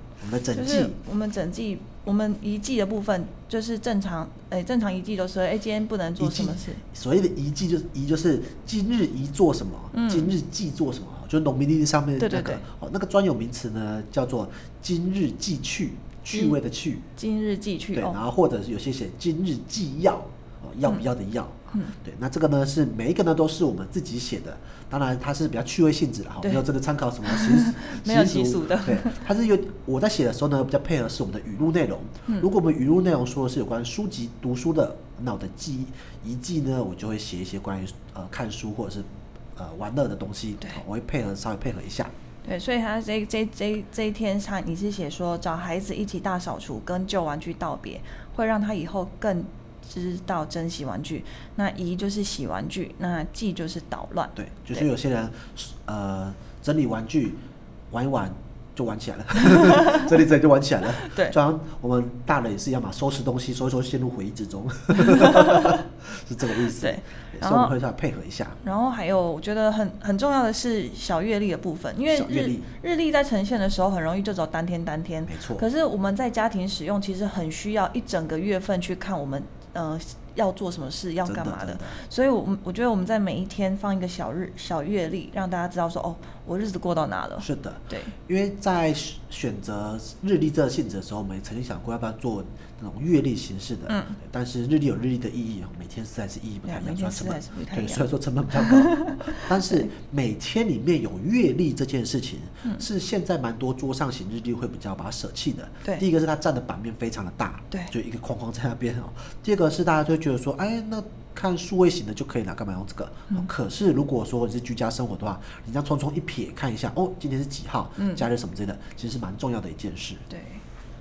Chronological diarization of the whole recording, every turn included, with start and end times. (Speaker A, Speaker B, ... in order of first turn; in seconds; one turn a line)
Speaker A: 0.2-0.9
Speaker B: 0.5-6.8
Speaker A: 6.2-17.1
Speaker B: 9.9-10.3
Speaker B: 12.2-12.6
Speaker B: 17.1-18.2
Speaker A: 17.9-42.1
Speaker B: 27.2-29.2
Speaker B: 42.4-54.9
Speaker A: 54.4-68.6
Speaker B: 59.6-60.0
Speaker B: 61.0-61.4
Speaker B: 65.0-65.8
Speaker B: 66.6-67.7
Speaker B: 68.6-88.1
Speaker A: 72.1-72.7
Speaker A: 75.3-75.6
Speaker A: 81.2-82.0
Speaker A: 87.4-120.2
Speaker B: 93.9-94.2
Speaker B: 96.7-99.9
Speaker B: 118.0-118.2
Speaker B: 120.3-120.6